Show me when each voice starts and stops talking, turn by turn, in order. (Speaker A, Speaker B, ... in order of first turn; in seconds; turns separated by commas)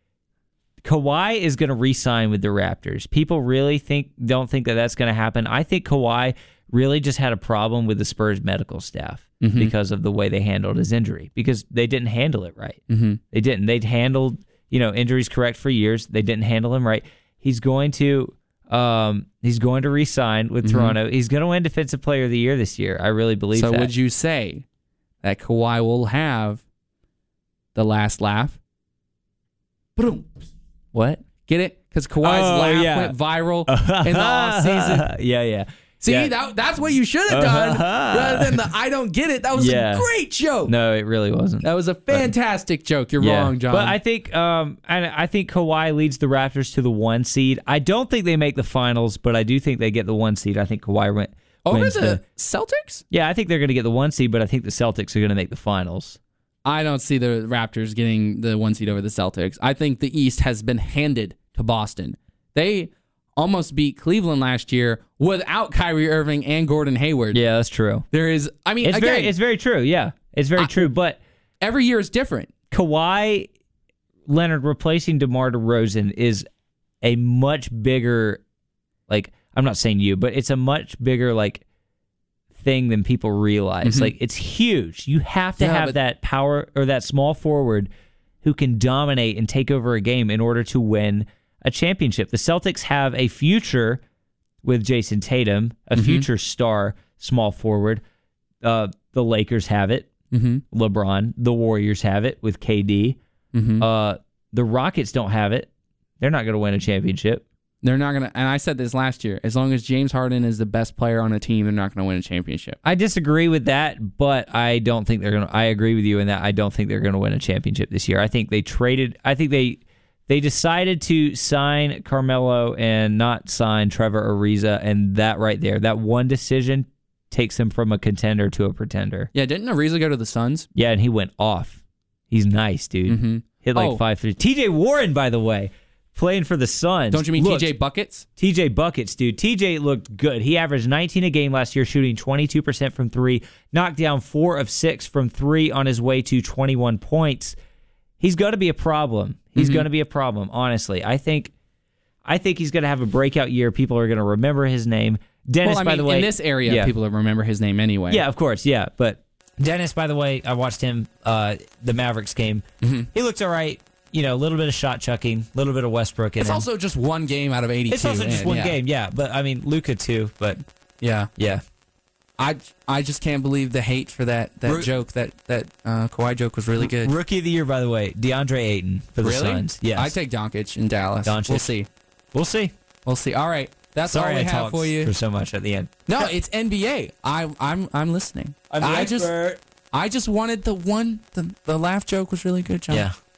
Speaker A: 0.8-12.8, Speaker B: 9.4-9.7, Speaker B: 12.9-13.2, Speaker A: 13.3-23.9, Speaker B: 20.6-21.0, Speaker B: 23.5-24.6, Speaker B: 25.2-26.6, Speaker B: 27.8-28.6, Speaker B: 30.0-30.5, Speaker A: 30.9-31.2, Speaker B: 31.5-35.1, Speaker A: 32.2-33.1, Speaker A: 33.7-36.3, Speaker B: 36.0-40.7, Speaker A: 37.3-38.6, Speaker A: 39.6-40.0, Speaker A: 40.7-42.3, Speaker B: 41.6-44.0, Speaker A: 43.2-52.2, Speaker B: 51.6-53.0, Speaker A: 53.1-56.2, Speaker B: 56.7-67.4, Speaker A: 67.3-68.1, Speaker B: 68.1-69.3, Speaker A: 68.8-71.2, Speaker B: 70.6-70.9, Speaker B: 71.6-72.5, Speaker A: 72.7-73.5, Speaker A: 74.3-76.5, Speaker A: 77.0-78.4, Speaker A: 79.1-81.6, Speaker A: 82.6-87.9, Speaker B: 83.8-84.1, Speaker B: 85.6-86.0, Speaker A: 88.4-94.0, Speaker A: 94.6-98.0, Speaker B: 96.0-96.3, Speaker A: 98.6-100.1, Speaker B: 100.3-100.6, Speaker A: 100.7-103.2, Speaker B: 103.5-103.8, Speaker A: 103.8-107.5, Speaker B: 107.8-112.8, Speaker A: 112.8-129.3, Speaker B: 129.3-130.7, Speaker A: 130.8-137.7, Speaker B: 133.1-134.0, Speaker B: 137.1-138.3, Speaker A: 138.4-147.6, Speaker A: 148.2-151.5, Speaker B: 149.6-149.8, Speaker A: 152.3-156.9, Speaker B: 155.6-158.2, Speaker A: 158.1-166.7, Speaker B: 162.8-163.1, Speaker B: 166.4-168.8, Speaker A: 167.9-170.6, Speaker B: 171.0-171.3, Speaker A: 171.4-171.6, Speaker B: 172.4-177.1, Speaker A: 176.8-180.1, Speaker B: 179.2-181.9, Speaker A: 181.2-181.7, Speaker A: 182.3-182.7, Speaker B: 183.1-185.1, Speaker A: 184.1-186.3, Speaker B: 186.1-189.3, Speaker A: 188.7-189.6, Speaker B: 189.9-193.1, Speaker A: 192.9-193.2